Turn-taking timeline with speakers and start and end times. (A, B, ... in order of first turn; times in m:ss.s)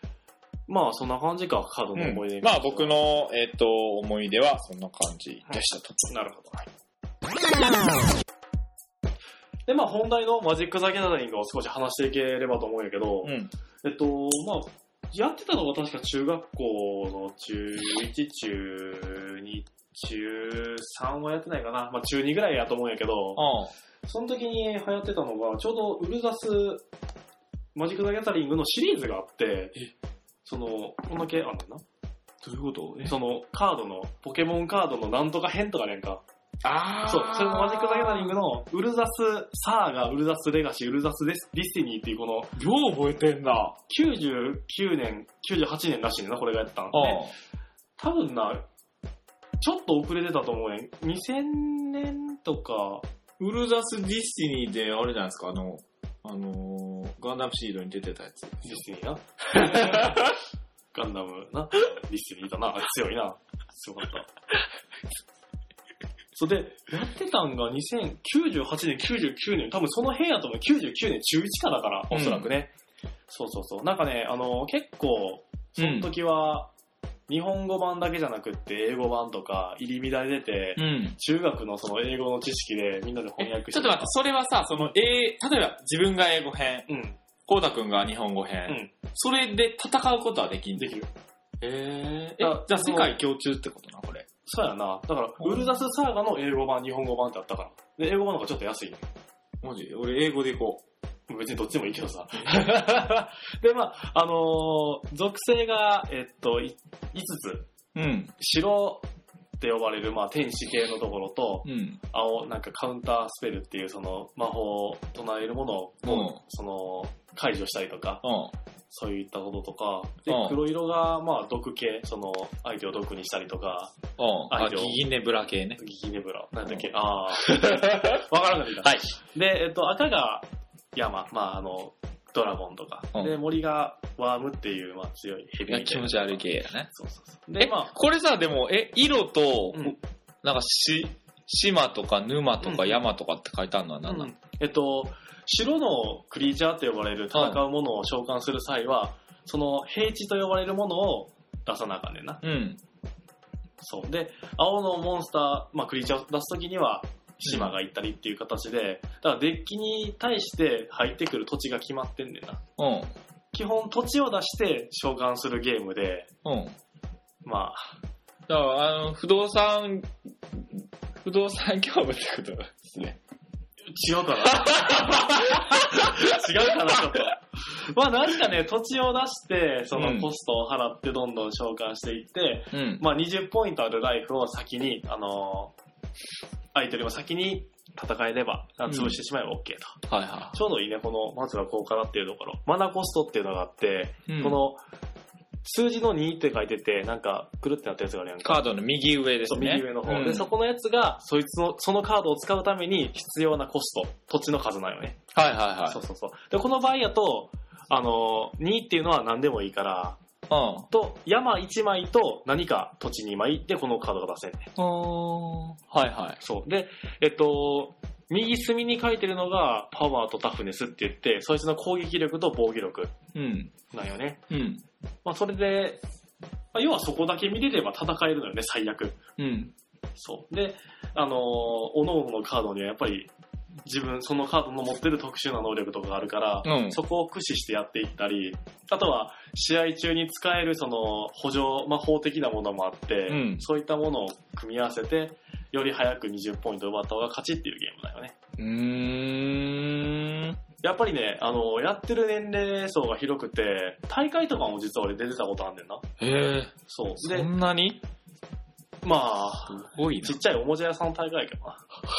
0:00.7-0:03.0 A
0:02.0-0:06.1 B
0:05.5-0:06.7 A
0:09.7-0:23.5 A
0:13.2-0:13.5 B
0:23.4-0:23.7 B
0:24.1-0:26.8 A
0:27.8-0:29.8 A
0:30.4-0:31.8 A
0:32.4-0:33.2 B
0:33.0-0:36.2 A
0:36.6-0:38.4 B
0:37.1-0:42.6 A
0:42.6-0:43.8 B
0:43.9-0:47.3 A
0:46.9-0:47.3 B
0:48.0-0:48.6 A
0:49.6-0:53.0 A
0:53.4-0:58.8 B
0:58.6-1:00.4 A
0:59.5-1:00.3 B
1:00.9-1:04.3 A
1:06.4-1:12.7 A
1:12.1-1:12.5 B
1:13.3-1:16.7 A
1:15.8-1:16.1 B
1:17.3-1:24.2 A
1:20.8-1:21.2 B
1:23.4-1:26.9 B
1:26.9-1:27.2 A
1:27.5-1:30.9 B
1:28.7-1:28.9 A
1:30.8-1:31.1 A
1:31.6-1:34.3 B
1:32.4-1:33.2 A
1:34.5-1:39.0 A
1:35.4-1:35.8 B
1:39.6-1:40.8 B
1:41.3-1:47.7 A
1:48.0-1:48.4 B
1:48.4-1:49.0 A
1:49.6-1:58.2 A
1:51.6-1:52.0 B
1:56.0-1:56.4 B
1:58.2-1:58.5 B
1:58.9-2:03.9 A
2:00.3-2:00.6 B
2:04.2-2:05.8 B
2:04.5-2:05.0 A
2:05.8-2:17.9 A
2:07.4-2:08.2 B
2:08.8-2:09.1 B
2:15.7-2:16.9 B
2:17.6-2:24.3 B
2:22.6-2:23.0 A
2:24.0-2:32.4 A
2:27.3-2:27.6 B
2:32.4-2:32.8 B
2:33.8-2:42.6 A
2:37.5-2:37.8 B
2:42.8-2:43.1 B
2:43.5-2:46.3 A
2:46.4-2:46.8 B
2:47.4-2:47.9 A
2:48.5-2:53.2 B
2:53.9-3:05.7 A
2:54.5-2:56.4 B
2:56.9-2:57.2 B
2:59.9-3:00.3 B
3:02.7-3:03.0 B
3:06.7-3:10.0 A
3:08.9-3:09.2 B
3:10.1-3:10.6 B
3:10.5-3:14.8 A
3:14.3-3:14.6 B
3:15.6-3:18.6 A
3:18.4-3:20.5 B
3:19.4-3:25.2 A
3:25.3-3:26.0 B
3:25.9-3:30.2 A
3:30.5-3:30.9 B
3:30.9-3:34.7 A
3:34.8-3:36.4 B
3:36.4-3:43.1 A
3:43.3-3:43.7 B
3:43.9-3:44.4 A
3:44.5-3:44.8 B
3:45.2-3:46.0 A
3:46.7-3:49.2 A
3:49.4-3:49.7 B
3:50.2-3:53.3 A
3:53.8-4:08.4 A
3:56.6-3:57.0 B
4:03.3-4:03.6 B
4:08.6-4:10.6 B
4:10.8-4:16.1 A
4:16.2-4:18.0 B
4:16.9-4:17.5 A
4:19.0-4:21.8 A
4:19.7-4:20.4 B